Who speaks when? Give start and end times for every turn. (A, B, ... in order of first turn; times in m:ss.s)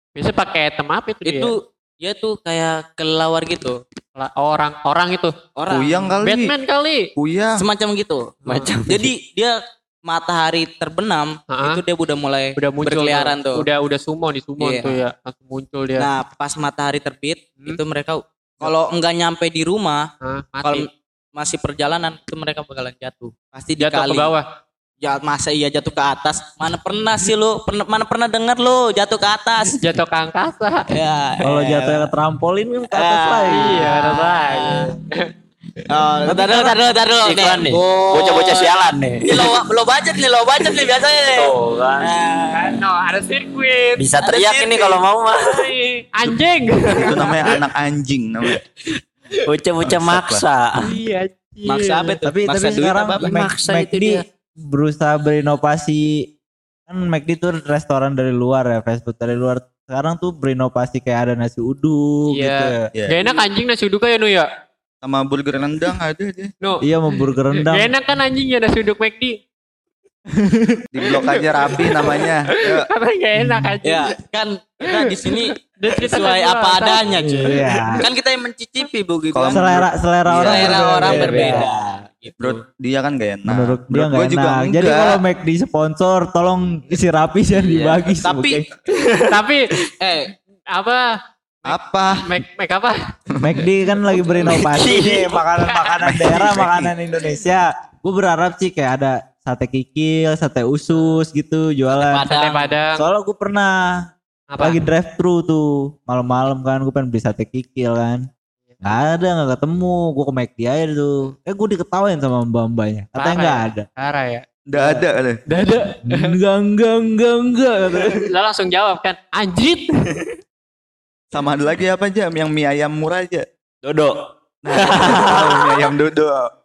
0:00.2-0:01.5 A
0:01.2-0:03.8 B
0:04.2-0:05.4 A
0:05.6-0:06.1 B
0:05.7-0:06.5 C
0:06.2-0:07.1 A
0:07.2-0:07.6 C
0:07.6-0:08.4 B
0:08.4-0:08.7 A
0:08.5-0:09.1 D
0:08.9-0:13.7 B
0:11.5-0:11.8 A
0:12.6-0:16.1 A
0:14.6-0:15.0 B
0:16.0-0:20.1 B
0:20.2-0:20.9 A
0:20.6-0:24.3 B
0:23.8-0:24.5 A
0:25.0-0:29.8 B
0:29.8-0:30.9 A
0:30.9-0:32.1 B
0:31.4-0:33.8 E
0:32.9-0:34.9 B
0:33.5-0:35.2 A
0:35.9-0:38.7 B
0:36.3-0:36.8 E
0:37.2-0:39.6 D
0:39.2-0:42.8 B
0:41.3-0:42.2 D
0:42.5-0:44.2 A
0:44.0-0:45.7 D
0:44.2-0:45.0 B
0:45.4-0:47.5 A
0:46.2-0:48.6 C
0:49.4-0:51.0 D
0:49.8-0:50.4 C
0:50.8-0:52.1 A
0:51.7-0:53.3 B
0:52.3-0:56.3 E
0:53.2-0:54.2 D
0:56.9-1:02.8 E
1:02.3-1:04.5 A
1:05.0-1:06.5 C
1:06.8-1:07.9 E
1:07.6-1:09.4 A
1:10.3-1:10.8 E
1:10.9-1:12.9 C
1:11.7-1:14.1 A
1:13.4-1:13.8 E
1:13.8-1:19.7 B
1:14.9-1:17.6 A
1:17.2-1:18.1 E
1:19.3-1:20.9 C
1:19.5-1:21.7 E
1:20.4-1:22.6 B
1:20.5-1:21.6 D
1:22.4-1:25.2 C
1:23.5-1:28.7 E
1:27.7-1:28.1 D
1:28.2-1:28.6 B
1:28.9-1:29.9 D
1:29.3-1:29.7 A
1:30.0-1:30.3 B
1:30.7-1:31.1 A
1:31.6-1:33.0 A
1:31.7-1:32.3 C
1:33.4-1:42.2 E
1:34.4-1:35.4 D
1:36.0-1:36.9 C
1:42.0-1:42.7 B
1:42.3-1:43.1 A
1:43.0-1:44.0 E
1:44.5-1:44.8 A
1:44.6-1:48.3 E
1:48.8-1:53.9 E
1:53.2-1:54.4 A
1:54.7-1:55.4 C
1:54.8-1:55.0 E
1:55.5-1:56.4 A
1:56.0-1:58.2 E
1:58.1-2:00.2 A
2:01.3-2:03.4 C
2:03.8-2:04.2 D
2:04.6-2:06.5 C
2:04.7-2:05.9 D